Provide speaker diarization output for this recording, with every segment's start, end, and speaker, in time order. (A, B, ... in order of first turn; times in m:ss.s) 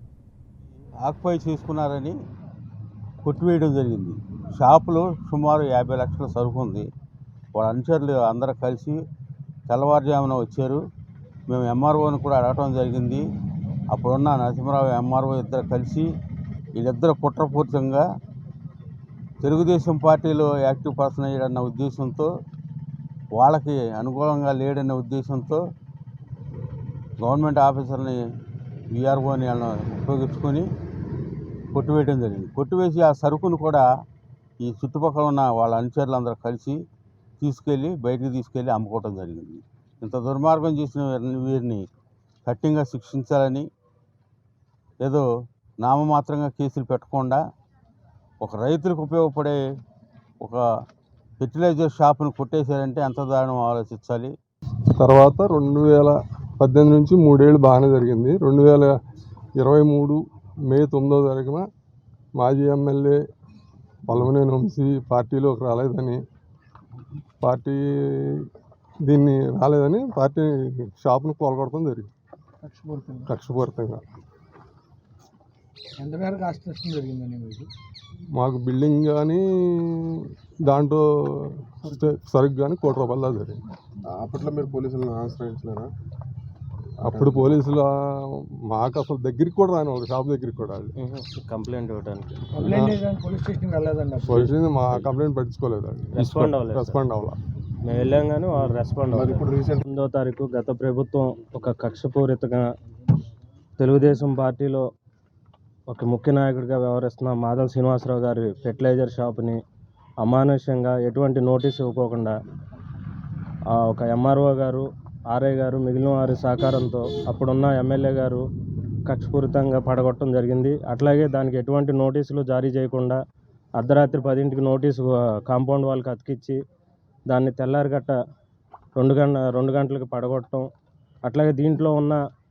0:01.0-0:02.2 A
0:03.2-0:06.9 A
0:07.5-0:09.0 A
0:09.7-0:10.8 A
0:11.5-0:13.2 A
0:13.9-0:16.1 A
0:16.8-0:18.0 A
0:19.4-0:22.3 A
0:23.4-0:25.6 A
0:27.2-0:28.2 A
0:28.9-0:30.7 A
0:31.7-0:33.9 A
0:34.6-0:36.8 A
0:37.4-0:41.8 A
0:42.4-0:43.6 A
0:45.8-0:47.4 A
0:48.4-0:49.6 A
0:51.4-0:54.3 A
0:55.0-0:58.9 B
0:59.6-1:01.6 B
1:02.4-1:03.2 B
1:04.1-1:06.2 B
1:07.4-1:08.5 B
1:09.0-1:12.1 B
1:12.6-1:13.3 C
1:13.3-1:14.0 B
1:16.0-1:17.7 C
1:18.4-1:23.6 B
1:24.1-1:25.9 D
1:27.0-1:30.9 B
1:27.1-1:27.5 D
1:31.0-1:32.4 E
1:32.5-1:34.4 C
1:32.6-1:32.9 B
1:34.2-1:37.4 B
1:36.2-1:37.0 E
1:37.8-1:42.6 E
1:39.1-1:39.8 D
1:43.8-1:44.8 E
1:45.9-1:49.6 E
1:50.2-1:52.3 E
1:53.7-1:58.4 E
1:59.1-2:03.2 E
2:03.8-2:06.6 E
2:07.3-2:08.1 E
2:09.0-2:10.6 E
2:11.3-2:12.2 E